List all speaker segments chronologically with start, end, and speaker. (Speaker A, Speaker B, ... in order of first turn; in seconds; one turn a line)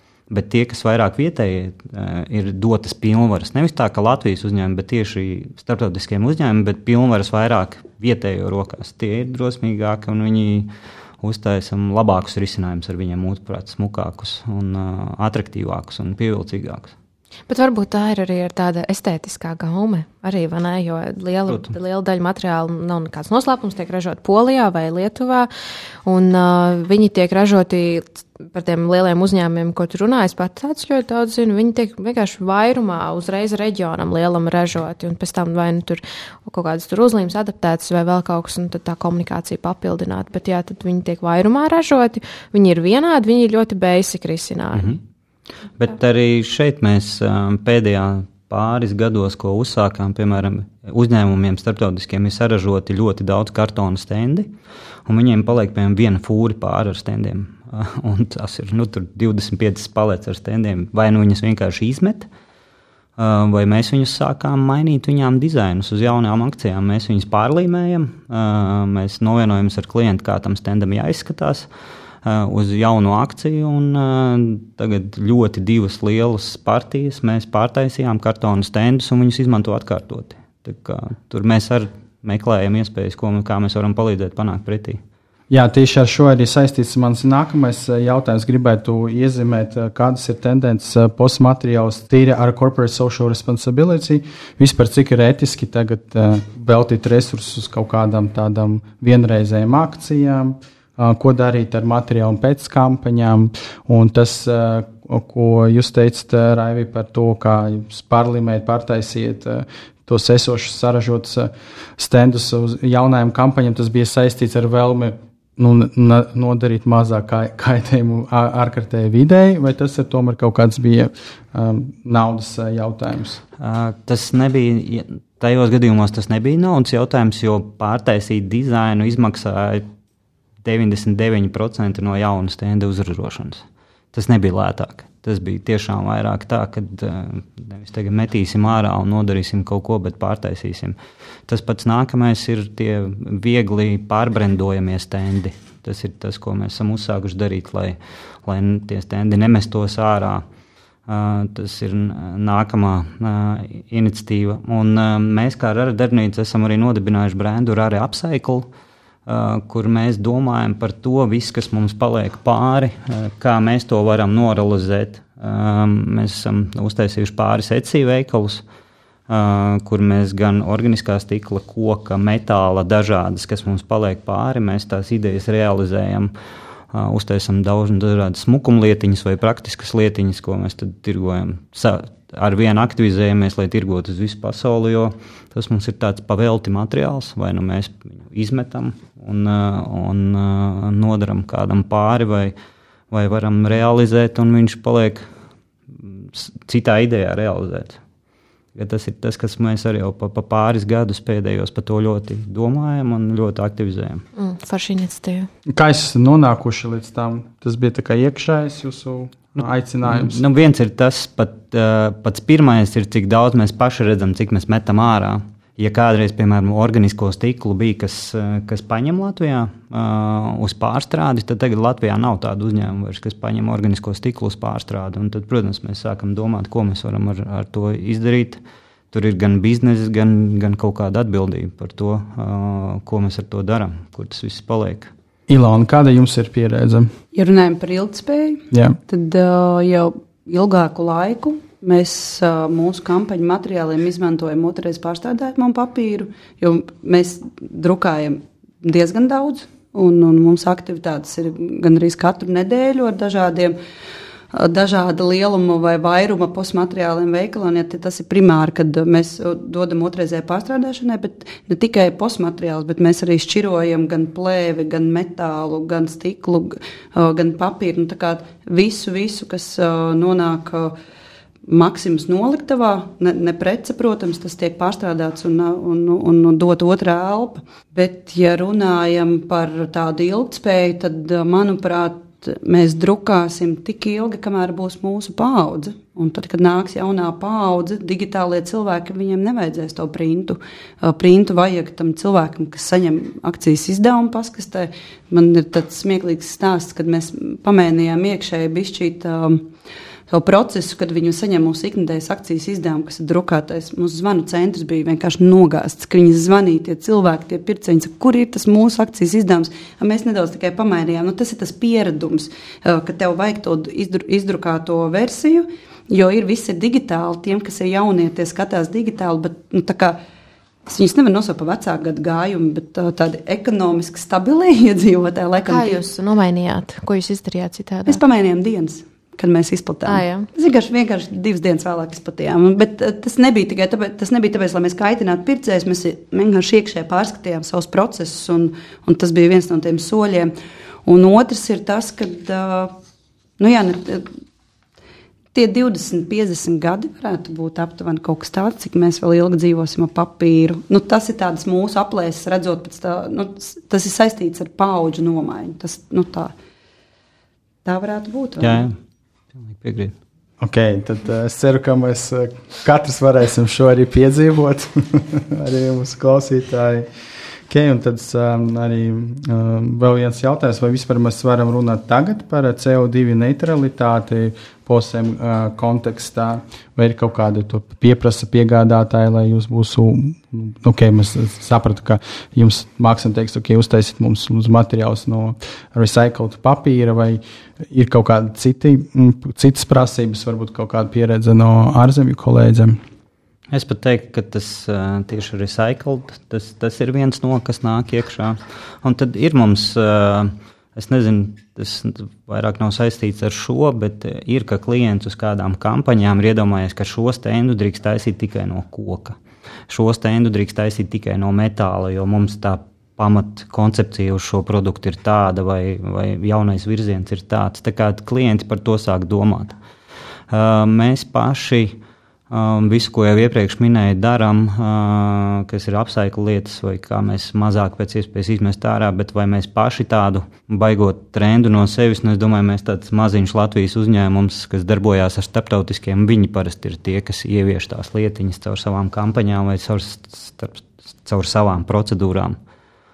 Speaker A: 0.3-10.7
Speaker A: 11.2-16.9
Speaker B: 17.5-25.5
Speaker B: 26.0-45.0
Speaker A: 45.8-54.5
Speaker A: 55.0-62.3
Speaker A: 63.2-71.7
Speaker A: 72.2-85.0
Speaker C: 85.5-123.4
Speaker A: 123.6-129.8
Speaker A: 130.6-141.0
Speaker A: 141.5-150.4
Speaker A: 151.1-158.7
Speaker A: 159.3-168.6
Speaker A: 169.3-176.3
Speaker A: 176.9-192.5
Speaker A: 193.1-195.2
Speaker A: 196.0-198.0
Speaker A: 198.7-204.2
Speaker B: 204.3-205.5
Speaker C: 205.7-210.4
Speaker A: 209.6-228.6
Speaker A: 229.1-235.1
Speaker C: 235.5-237.1
Speaker D: 237.3-253.8
Speaker C: 238.7-239.0
Speaker D: 254.5-270.9
Speaker D: 271.7-299.7
Speaker D: 300.3-320.2
Speaker D: 320.9-326.0
Speaker B: 325.7-328.2
Speaker D: 328.0-340.5
Speaker B: 330.1-330.5
Speaker D: 341.1-342.9
Speaker D: 343.6-344.3
Speaker D: 345.5-356.5
Speaker D: 357.8-358.9
Speaker A: 358.6-358.9
Speaker A: 359.5-360.1
Speaker C: 360.6-367.1
Speaker C: 367.7-393.0
Speaker A: 393.7-409.4
Speaker A: 409.9-419.8
Speaker A: 420.5-422.0
Speaker A: 422.5-442.6